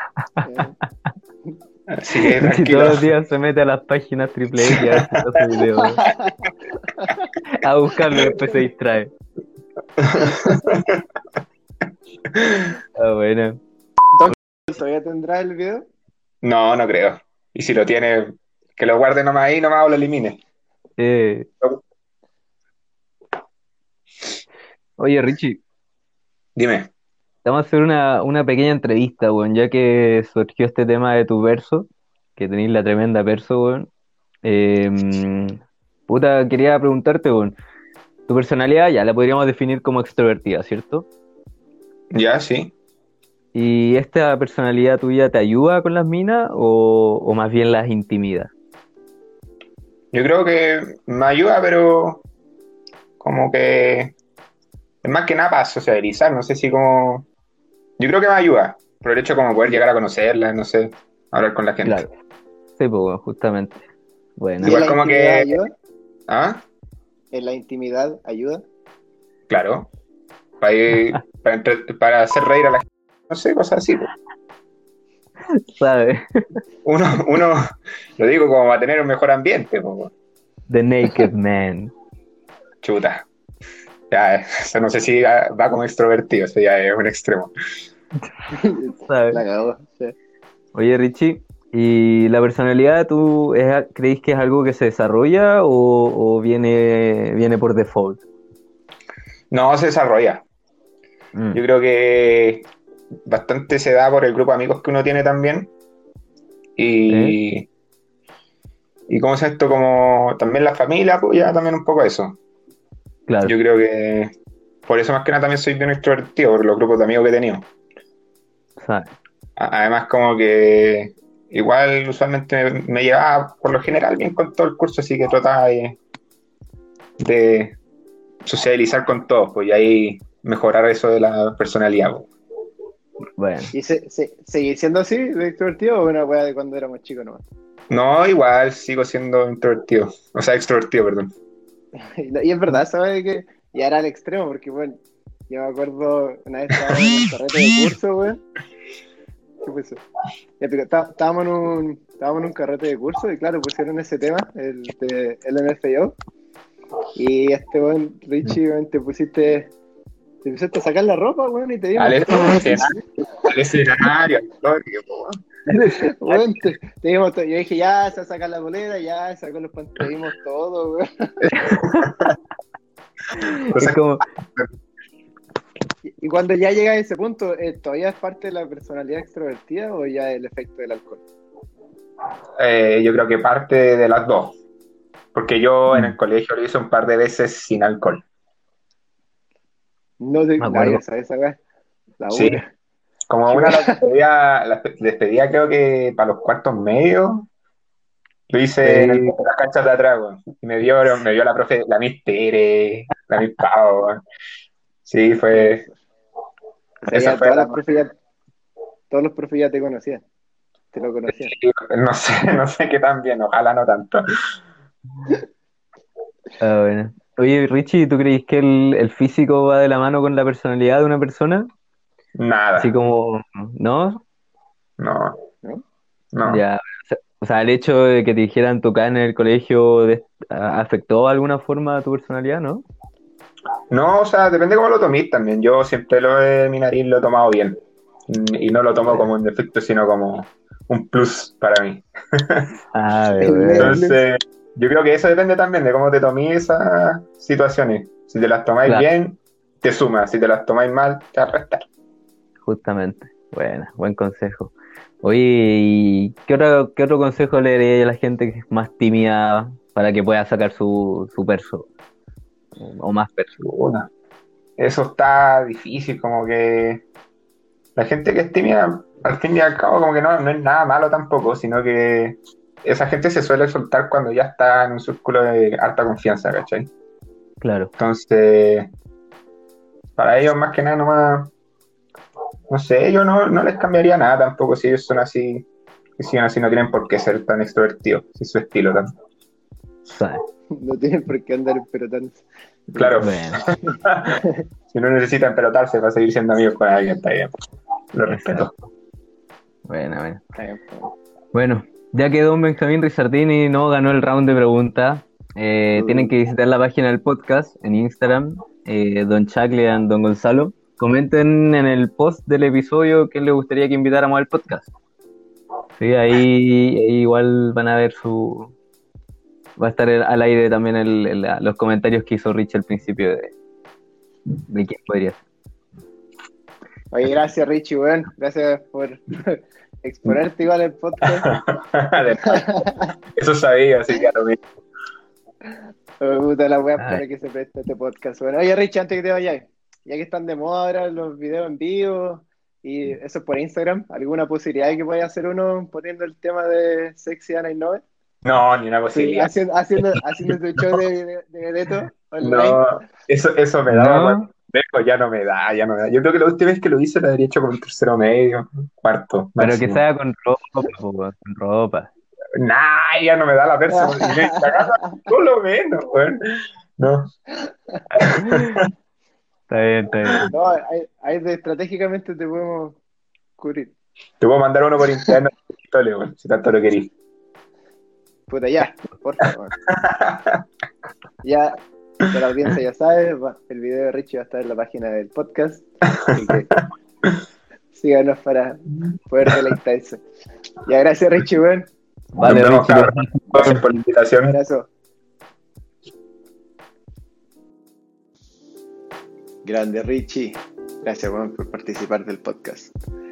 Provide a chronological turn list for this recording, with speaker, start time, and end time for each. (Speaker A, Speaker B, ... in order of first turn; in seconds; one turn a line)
Speaker A: 0.4-0.8
Speaker B: 1.9-3.0
Speaker C: 2.4-6.0
Speaker A: 6.0-7.2
Speaker C: 7.6-9.1
Speaker B: 10.0-11.0
Speaker C: 12.9-13.6
Speaker A: 14.1-15.9
Speaker B: 16.4-20.4
Speaker C: 21.0-21.5
Speaker C: 25.0-25.6
Speaker B: 26.6-26.9
Speaker C: 27.4-33.9
Speaker C: 34.4-35.6
Speaker C: 36.1-37.5
Speaker C: 38.3-41.1
Speaker B: 42.1-42.7
Speaker C: 43.5-48.5
Speaker B: 50.1-52.2
Speaker B: 53.2-54.1
Speaker B: 55.0-57.3
Speaker B: 58.0-62.0
Speaker C: 61.8-62.1
Speaker C: 62.8-63.8
Speaker C: 64.4-64.8
Speaker A: 64.6-65.7
Speaker B: 64.6-65.5
Speaker B: 66.3-66.6
Speaker A: 67.3-68.6
Speaker B: 69.5-69.9
Speaker B: 70.6-74.1
Speaker C: 75.5-76.6
Speaker B: 76.8-80.1
Speaker C: 80.7-81.9
Speaker B: 82.8-83.3
Speaker B: 84.1-87.5
Speaker A: 88.5-90.1
Speaker C: 89.0-89.4
Speaker C: 90.8-98.2
Speaker B: 99.5-100.4
Speaker B: 101.5-102.7
Speaker B: 103.3-105.7
Speaker B: 106.8-107.7
Speaker C: 107.1-107.4
Speaker B: 109.1-112.4
Speaker C: 113.3-113.5
Speaker B: 113.4-114.3
Speaker B: 114.9-117.7
Speaker C: 118.8-119.1
Speaker B: 119.6-126.0
Speaker B: 127.2-127.8
Speaker B: 128.4-132.3
Speaker C: 133.4-133.7
Speaker A: 133.7-137.4
Speaker B: 137.9-141.3
Speaker A: 142.0-148.4
Speaker A: 149.6-150.0
Speaker A: 150.6-156.2
Speaker A: 157.1-159.7
Speaker A: 160.4-163.0
Speaker B: 162.0-162.9
Speaker B: 163.5-165.4
Speaker C: 165.7-166.1
Speaker A: 166.2-171.3
Speaker B: 171.4-172.3
Speaker C: 171.6-172.1
Speaker C: 173.3-174.2
Speaker B: 173.7-174.0
Speaker A: 176.2-181.2
Speaker B: 182.6-184.6
Speaker B: 185.3-188.2
Speaker C: 185.9-186.2
Speaker A: 190.2-191.6
Speaker C: 190.6-191.0
Speaker A: 192.2-192.7
Speaker B: 192.3-192.6
Speaker B: 193.3-197.5
Speaker A: 193.5-194.0
Speaker B: 198.5-204.2
Speaker C: 198.8-199.3
Speaker B: 205.0-205.8
Speaker A: 205.5-205.9
Speaker A: 207.0-208.1
Speaker B: 207.1-207.8
Speaker A: 209.1-210.2
Speaker A: 210.9-211.5
Speaker B: 211.3-214.2
Speaker C: 216.6-221.7
Speaker B: 222.4-222.9
Speaker C: 222.8-224.2
Speaker B: 225.0-225.4
Speaker B: 226.3-226.6
Speaker C: 226.4-232.8
Speaker B: 233.9-242.7
Speaker C: 239.0-239.3
Speaker C: 242.9-244.0
Speaker A: 243.4-244.2
Speaker B: 243.8-251.8
Speaker C: 252.6-261.9
Speaker C: 262.8-263.5
Speaker B: 263.6-264.1
Speaker B: 264.8-267.0
Speaker B: 268.0-276.9
Speaker C: 277.6-277.9
Speaker B: 278.0-278.9
Speaker B: 280.2-281.5
Speaker B: 282.7-285.7
Speaker B: 286.2-289.1
Speaker C: 290.1-290.4
Speaker A: 290.8-292.4
Speaker A: 292.9-293.3
Speaker B: 292.9-294.4
Speaker C: 293.2-293.6
Speaker B: 294.9-297.5
Speaker B: 298.1-298.7
Speaker C: 298.3-298.7
Speaker C: 299.9-300.4
Speaker A: 300.6-301.1
Speaker C: 301.5-314.9
Speaker A: 305.9-306.3
Speaker C: 316.0-318.7
Speaker C: 319.8-323.5
Speaker C: 324.7-325.4
Speaker A: 327.1-331.5
Speaker B: 331.5-334.6
Speaker A: 332.5-333.1
Speaker A: 335.7-348.0
Speaker B: 348.4-349.5
Speaker A: 349.1-352.8
Speaker B: 352.4-360.0
Speaker C: 353.9-354.5
Speaker C: 359.6-362.1
Speaker B: 362.6-366.4
Speaker A: 363.9-365.1
Speaker B: 367.0-367.3
Speaker B: 368.2-368.8
Speaker C: 368.2-368.8
Speaker C: 369.7-370.5
Speaker A: 370.5-373.0
Speaker A: 373.6-373.9
Speaker B: 374.4-377.1
Speaker A: 378.5-379.8
Speaker B: 380.0-380.6
Speaker A: 381.4-381.8
Speaker A: 382.3-386.7
Speaker A: 387.9-390.2
Speaker A: 390.9-391.9
Speaker C: 392.4-393.8
Speaker B: 392.4-394.5
Speaker A: 394.5-394.9
Speaker A: 399.6-402.9